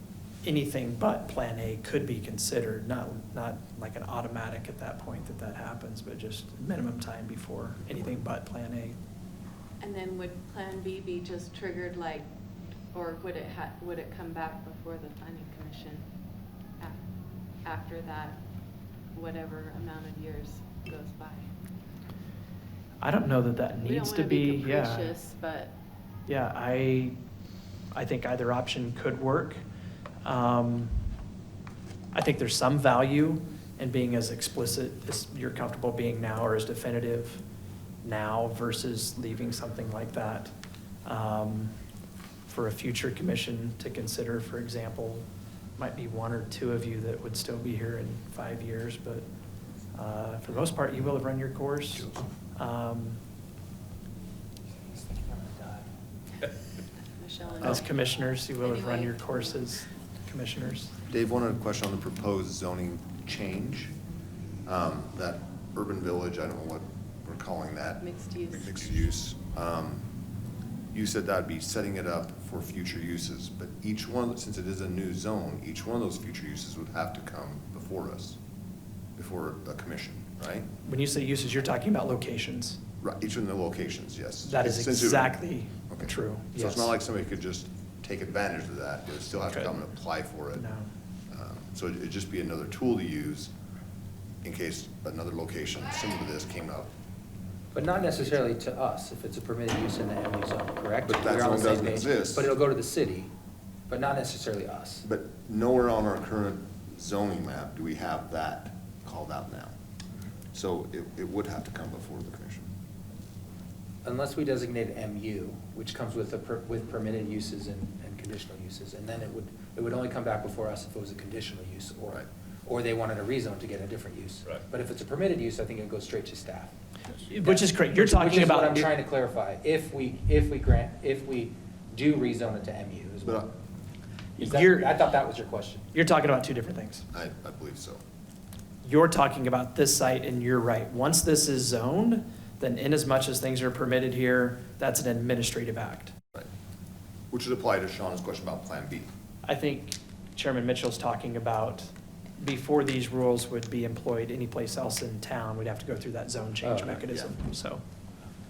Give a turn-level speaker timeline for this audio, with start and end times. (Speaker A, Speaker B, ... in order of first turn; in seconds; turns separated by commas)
Speaker A: 0.4-9.0, Speaker B: 9.8-12.3, Speaker B: 12.9-16.1, Speaker B: 17.6-18.4, Speaker B: 19.1-21.5, Speaker A: 23.0-25.2, Speaker B: 23.8-25.7, Speaker A: 26.3-27.2, Speaker A: 27.9-29.6, Speaker A: 30.2-31.0, Speaker A: 32.1-37.4, Speaker A: 38.0-40.5, Speaker A: 41.0-41.7, Speaker A: 42.5-49.2, Speaker A: 49.9-53.2, Speaker C: 54.9-55.9, Speaker B: 57.1-58.0, Speaker A: 57.6-61.0, Speaker B: 58.6-59.6, Speaker D: 61.1-64.0, Speaker D: 64.7-70.1, Speaker B: 68.0-69.1, Speaker D: 70.9-78.4, Speaker D: 79.2-80.7, Speaker A: 80.8-82.8, Speaker D: 83.0-90.6, Speaker A: 84.4-87.0, Speaker A: 89.4-89.8, Speaker A: 90.5-90.9, Speaker D: 91.3-93.5, Speaker D: 94.4-96.9, Speaker C: 97.7-103.3, Speaker D: 101.0-102.5, Speaker C: 103.9-105.0, Speaker D: 105.0-109.8, Speaker D: 110.5-112.7, Speaker C: 114.0-126.7, Speaker A: 127.2-128.9, Speaker C: 127.3-133.5, Speaker D: 133.2-133.5, Speaker C: 134.4-135.8, Speaker A: 134.4-135.0, Speaker A: 135.9-137.1, Speaker D: 137.1-138.0, Speaker A: 138.8-146.2, Speaker D: 147.3-149.1, Speaker A: 149.4-157.8, Speaker C: 156.6-157.0, Speaker D: 157.1-157.4